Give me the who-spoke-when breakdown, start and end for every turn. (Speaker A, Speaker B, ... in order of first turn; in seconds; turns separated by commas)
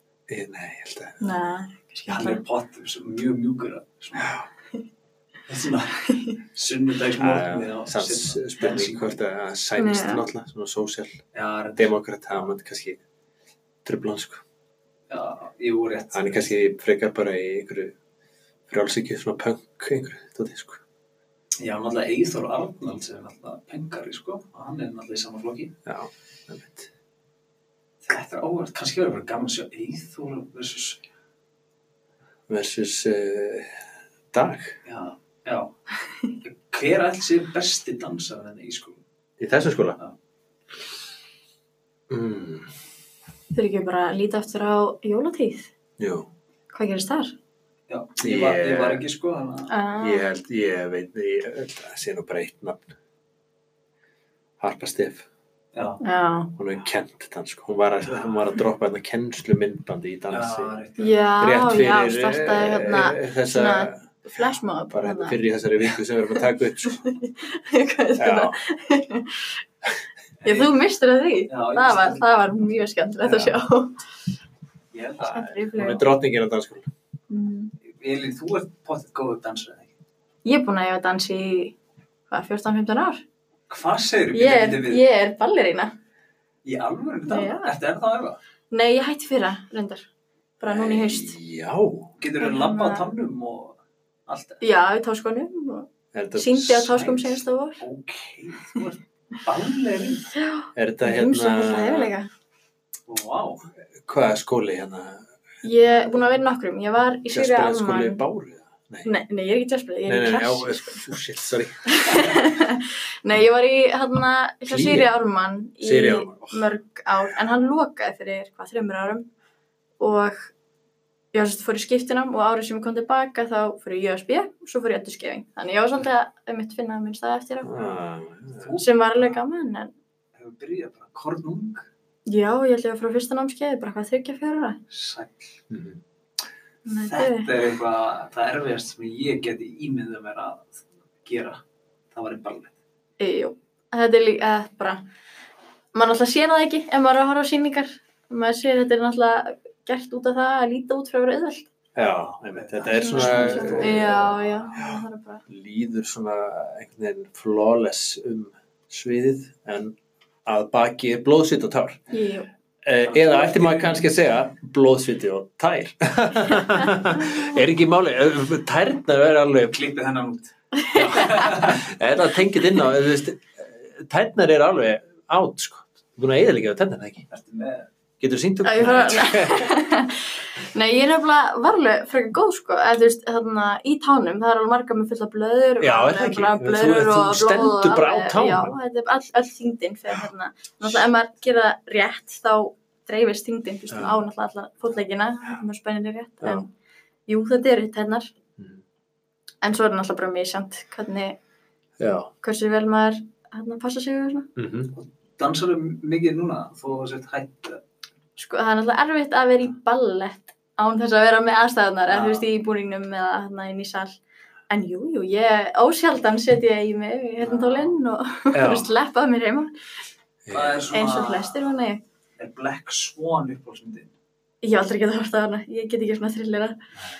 Speaker A: 0.3-1.2, Speaker B: 1.2-2.4, Speaker C: 2.1-4.4, Speaker C: 5.5-9.2, Speaker B: 6.1-6.3, Speaker A: 7.2-11.2, Speaker B: 9.8-10.2, Speaker C: 11.3-11.9, Speaker A: 11.8-13.0, Speaker A: 13.8-14.4, Speaker C: 15.1-16.5, Speaker A: 16.1-17.9, Speaker A: 18.7-20.8, Speaker C: 21.6-25.7, Speaker A: 25.9-26.9, Speaker C: 28.0-31.0, Speaker A: 32.5-34.8, Speaker C: 34.9-35.7, Speaker C: 36.4-39.0, Speaker A: 39.4-40.0, Speaker A: 42.1-42.7, Speaker B: 43.5-45.7, Speaker A: 46.0-46.3, Speaker B: 46.7-47.3, Speaker C: 47.9-49.7, Speaker A: 48.2-49.0, Speaker B: 49.7-50.2, Speaker A: 50.0-52.9, Speaker A: 54.6-55.2, Speaker C: 55.7-56.0, Speaker B: 56.0-56.5, Speaker A: 56.6-60.8, Speaker C: 58.1-58.4, Speaker C: 60.3-61.2, Speaker B: 61.0-65.4, Speaker A: 61.4-64.0, Speaker A: 64.9-67.0, Speaker B: 66.8-69.6, Speaker A: 68.2-68.6, Speaker B: 70.4-74.0, Speaker C: 71.5-72.2, Speaker C: 74.9-75.5, Speaker B: 75.2-76.0, Speaker A: 75.2-76.9, Speaker B: 77.3-77.7, Speaker C: 77.9-79.9, Speaker B: 80.4-81.8, Speaker B: 82.3-83.2, Speaker C: 83.7-85.0, Speaker B: 84.3-85.9, Speaker C: 86.6-88.4, Speaker B: 87.3-87.7, Speaker B: 88.7-90.1, Speaker B: 90.6-91.3, Speaker A: 90.6-92.1, Speaker C: 92.2-94.6, Speaker B: 92.4-93.0, Speaker B: 94.6-97.8, Speaker A: 96.1-97.2, Speaker C: 97.8-100.3, Speaker B: 100.3-102.3, Speaker A: 100.7-102.1, Speaker C: 103.1-103.7, Speaker A: 104.0-105.3, Speaker B: 105.6-108.2, Speaker A: 107.3-109.1, Speaker B: 109.0-111.1, Speaker A: 110.0-112.4, Speaker B: 111.9-119.3, Speaker A: 114.7-115.1, Speaker A: 115.8-116.7, Speaker B: 120.0-120.5, Speaker B: 121.3-127.9, Speaker A: 127.6-128.7, Speaker C: 128.5-129.4, Speaker B: 128.8-129.9, Speaker C: 130.3-131.8, Speaker B: 132.3-134.8, Speaker C: 134.9-135.5, Speaker A: 135.7-136.0, Speaker B: 136.8-137.5, Speaker C: 137.1-141.6, Speaker C: 142.1-142.7, Speaker B: 143.2-145.0, Speaker B: 145.9-151.7, Speaker A: 151.9-162.0, Speaker C: 151.9-154.3, Speaker B: 152.9-155.4, Speaker B: 162.1-162.5, Speaker A: 162.8-169.8, Speaker C: 163.1-164.0, Speaker C: 169.7-170.5, Speaker B: 170.7-171.4, Speaker A: 170.9-177.2, Speaker C: 171.1-171.8, Speaker C: 177.3-177.9, Speaker A: 178.2-179.7, Speaker B: 178.6-196.7, Speaker A: 185.8-188.7, Speaker A: 193.9-194.2, Speaker B: 197.3-198.3, Speaker B: 199.6-201.4, Speaker A: 202.0-202.3, Speaker B: 202.4-204.5, Speaker A: 204.6-204.9, Speaker C: 204.9-207.8, Speaker B: 208.4-219.7, Speaker C: 212.1-212.4, Speaker C: 217.4-217.9, Speaker A: 218.5-218.9, Speaker A: 220.4-221.0, Speaker C: 220.5-221.6, Speaker B: 220.9-222.0, Speaker C: 222.4-224.1, Speaker B: 224.6-226.8